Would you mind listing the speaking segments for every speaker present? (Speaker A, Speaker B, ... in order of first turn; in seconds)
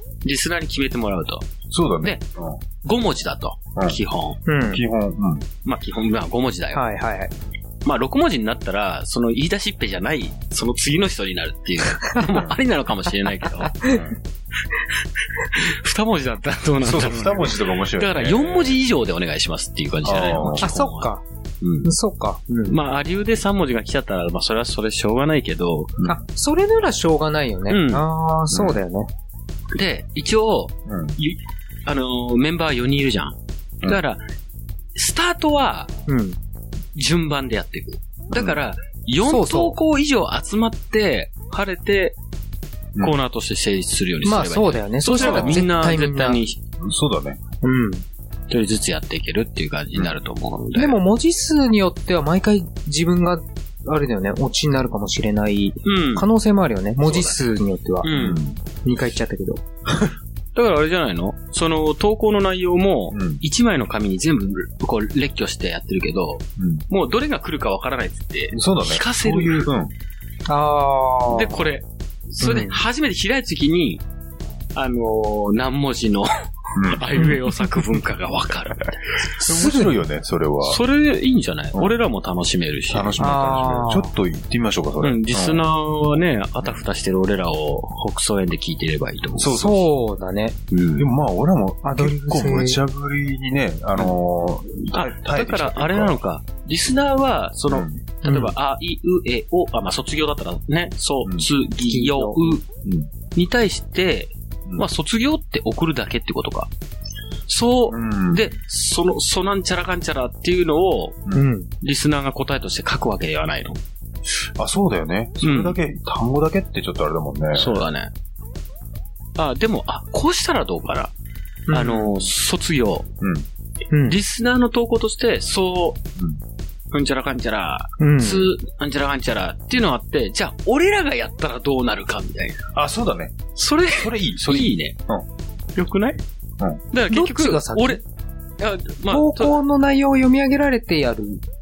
Speaker A: 0.2-1.5, 2.8-4.4, 5.6-6.8, 7.8-13.9, 15.4-21.9, 22.6-26.0, 27.7-28.1, 29.7-34.2, 34.9-35.9, 36.9-42.2, 43.0-46.6, 48.5-51.0, 55.8-56.3, 57.0-57.5, 58.0-58.4, 60.5-69.7, 71.3-74.0, 74.7-76.3, 76.9-79.1, 80.6-83.2, 85.0-89.5, 90.7-91.1, 94.9-102.6, 103.3-106.7, 107.5-111.2, 111.8-113.8, 115.4-115.8, 117.5-118.1, 119.4-121.1, 121.7-123.1, 124.1-126.0, 126.9-132.6, 133.6-134.9, 135.8-136.2, 136.9-138.0, 138.6-139.6
Speaker B: 1.7-2.6, 3.7-4.0, 4.6-5.5, 12.3-12.6, 13.8-14.2, 16.8-18.8, 20.0-20.8, 28.5-28.8, 30.9-31.2, 38.3-38.6, 45.2-45.6, 46.8-47.4, 58.1-58.6, 63.1-63.4, 66.6-66.8, 68.5-69.9, 76.7-77.1, 79.4-80.8, 82.9-85.6, 89.3-89.9, 91.0-96.2, 97.7-98.4, 102.8-103.1, 107.9-108.5, 114.6-117.8, 123.2-123.5, 132.7-135.2
Speaker C: 4.5-4.8, 6.7-7.3, 20.6-21.2, 21.8-22.8, 26.0-29.1, 36.1-36.4, 39.2-39.8, 44.2-46.4, 47.6-48.0, 50.7-58.1, 58.8-59.6, 70.5-71.6, 72.4-72.8, 77.2-77.4, 79.4-80.0, 83.2-84.1, 89.5-90.5, 91.8-92.8, 101.9-102.6, 111.3-111.7, 121.7-122.3, 123.9-124.2, 128.0-128.5, 137.1-138.0, 139.1-141.4